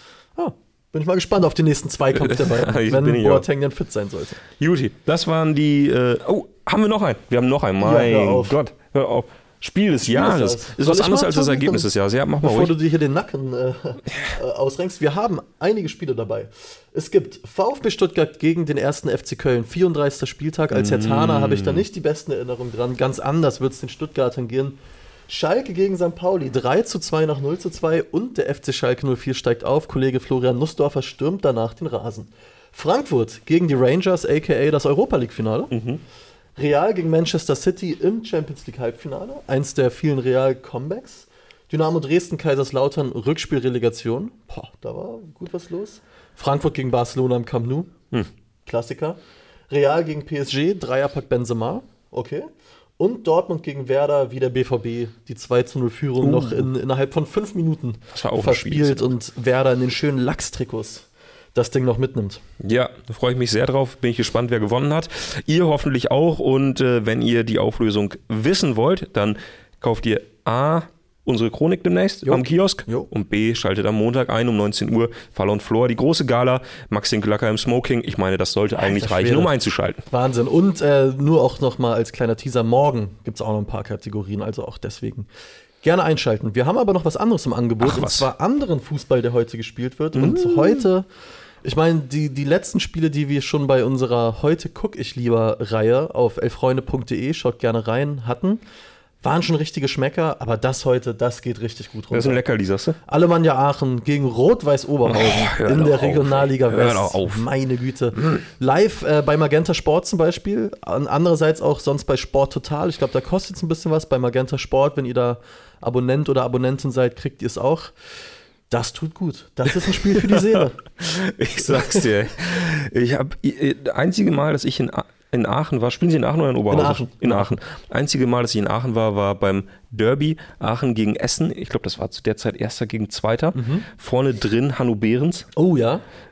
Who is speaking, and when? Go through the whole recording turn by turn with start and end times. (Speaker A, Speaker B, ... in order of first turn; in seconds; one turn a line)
Speaker A: 0.4-4.4
Speaker B: 2.1-3.5
Speaker B: 4.6-12.7
Speaker A: 7.8-8.6
Speaker A: 10.0-11.9
Speaker A: 12.4-35.7
Speaker B: 20.7-21.8
Speaker B: 35.7-36.0
Speaker A: 36.6-47.9
Speaker A: 48.7-49.2
Speaker A: 49.7-62.4
Speaker B: 56.2-56.7
Speaker B: 58.1-59.1
Speaker B: 62.6-80.0
Speaker A: 72.2-73.1
Speaker A: 78.8-79.5
Speaker A: 80.1-85.3
Speaker A: 85.8-91.1
Speaker B: 87.8-88.3
Speaker B: 90.2-90.8
Speaker A: 91.6-98.6
Speaker A: 99.2-102.4
Speaker B: 102.1-103.0
Speaker A: 103.1-118.0
Speaker B: 105.1-107.5
Speaker B: 108.2-108.5
Speaker A: 118.7-120.8
Speaker B: 120.2-135.5
Speaker A: 121.6-122.0
Speaker A: 126.7-127.6
Speaker A: 133.6-133.9
Speaker A: 135.6-136.0